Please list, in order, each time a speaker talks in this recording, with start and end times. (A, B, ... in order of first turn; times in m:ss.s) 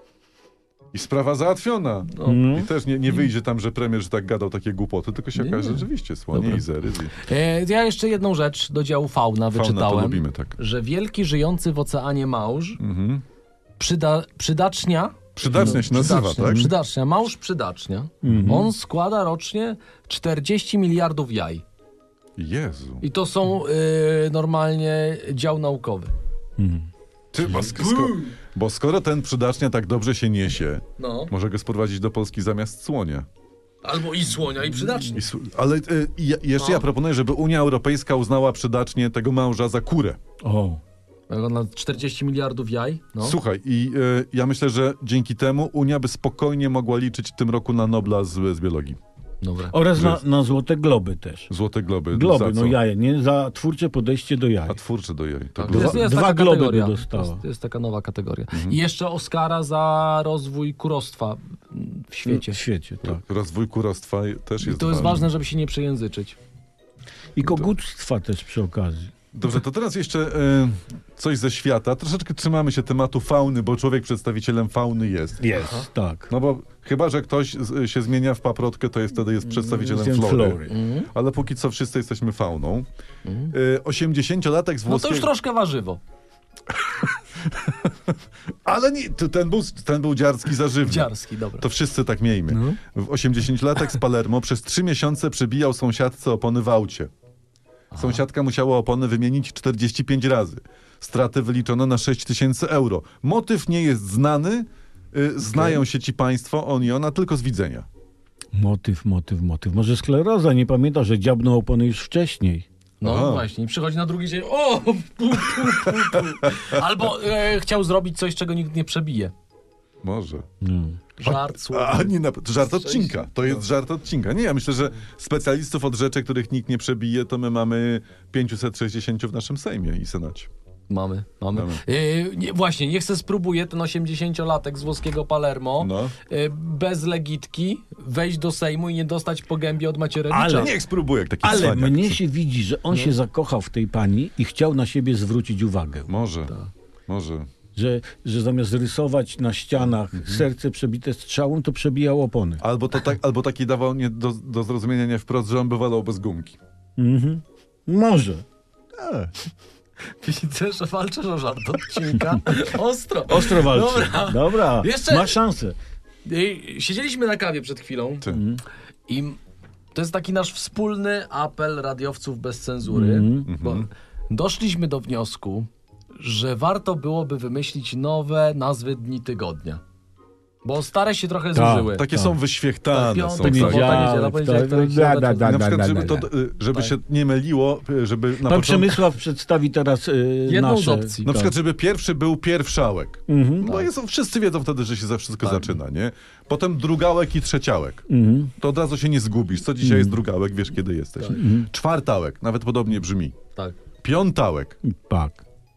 0:00.9-0:07.2 A
0:02.1-0:02.4 B
0:02.2-0:02.7 C
0:05.3-0:06.6 B
0:07.2-0:12.8 B
0:09.5-0:10.6 A
0:12.8-0:13.2 A
0:13.8-0:21.6 B
0:15.4-0:16.7 A
0:15.5-0:15.8 C
0:16.4-0:16.7 C
0:18.2-0:18.7 C
0:22.4-0:23.0 A
0:23.0-0:26.1 B
0:26.6-0:26.9 C
0:27.3-0:33.3 A
0:27.4-0:28.3 B
0:31.0-0:31.3 B
0:33.8-0:35.2 B
0:35.1-0:40.2 A
0:36.6-0:36.8 B
0:40.4-0:40.8 C
0:41.3-0:43.4 B
0:43.2-0:49.0 A
0:49.4-0:49.8 B
0:49.7-0:51.5 C
0:49.9-0:50.2 A
0:51.5-0:52.8 A
0:52.1-0:54.8 C
0:54.7-0:56.1 A
0:55.6-1:02.6 B
0:55.7-0:57.4 C
0:58.5-0:58.8 A
1:02.3-1:03.2 C
1:03.0-1:05.3 A
1:04.6-1:06.4 B
1:07.4-1:09.1 C
1:07.4-1:07.7 A
1:09.3-1:15.5 A
1:15.4-1:16.3 C
1:15.5-1:15.8 B
1:16.3-1:22.8 A
1:19.4-1:20.7 C
1:20.7-1:21.1 B
1:23.2-1:23.5 B
1:23.5-1:25.3 A
1:24.9-1:26.0 B
1:26.8-1:37.1 A
1:30.9-1:31.6 B
1:32.5-1:32.8 B
1:37.9-1:38.2 B
1:38.0-1:47.8 A
1:45.5-1:45.8 B
1:48.5-1:52.6 C
1:53.0-1:59.3 B
1:53.0-1:53.4 A
1:56.4-1:56.8 A
2:00.0-2:00.5 A
2:00.6-2:01.0 C
2:01.2-2:03.6 B
2:01.2-2:10.5 A
2:10.9-2:20.7 B
2:11.5-2:11.8 A
2:15.8-2:16.1 A
2:20.3-2:20.7 C
2:20.5-2:22.2 A
2:21.4-2:26.1 C
2:26.1-2:26.5 A
2:27.1-2:27.5 A
2:27.7-2:32.6 C
2:32.6-2:36.6 A
2:37.0-2:38.4 C
2:39.0-2:39.3 C
2:40.2-2:45.4 B
2:43.3-2:45.8 C
2:46.2-2:48.3 B
2:48.3-2:48.6 C
2:49.1-2:49.4 B
2:49.9-2:59.8 B
2:52.9-2:53.5 C
2:53.4-2:53.9 A
3:00.6-3:02.0 B
3:01.5-3:02.4 C
3:01.9-3:04.1 A
3:02.9-3:06.9 B
3:03.4-3:06.2 C
3:05.4-3:09.0 A
3:08.4-3:11.5 C
3:10.5-3:11.3 B
3:11.2-3:18.1 A
3:13.3-3:13.7 C
3:13.6-3:13.9 B
3:15.4-3:15.8 B
3:18.1-3:18.5 C
3:18.6-3:23.4 A
3:19.8-3:20.2 C
3:21.3-3:21.7 C
3:24.0-3:24.8 A
3:24.8-3:25.4 C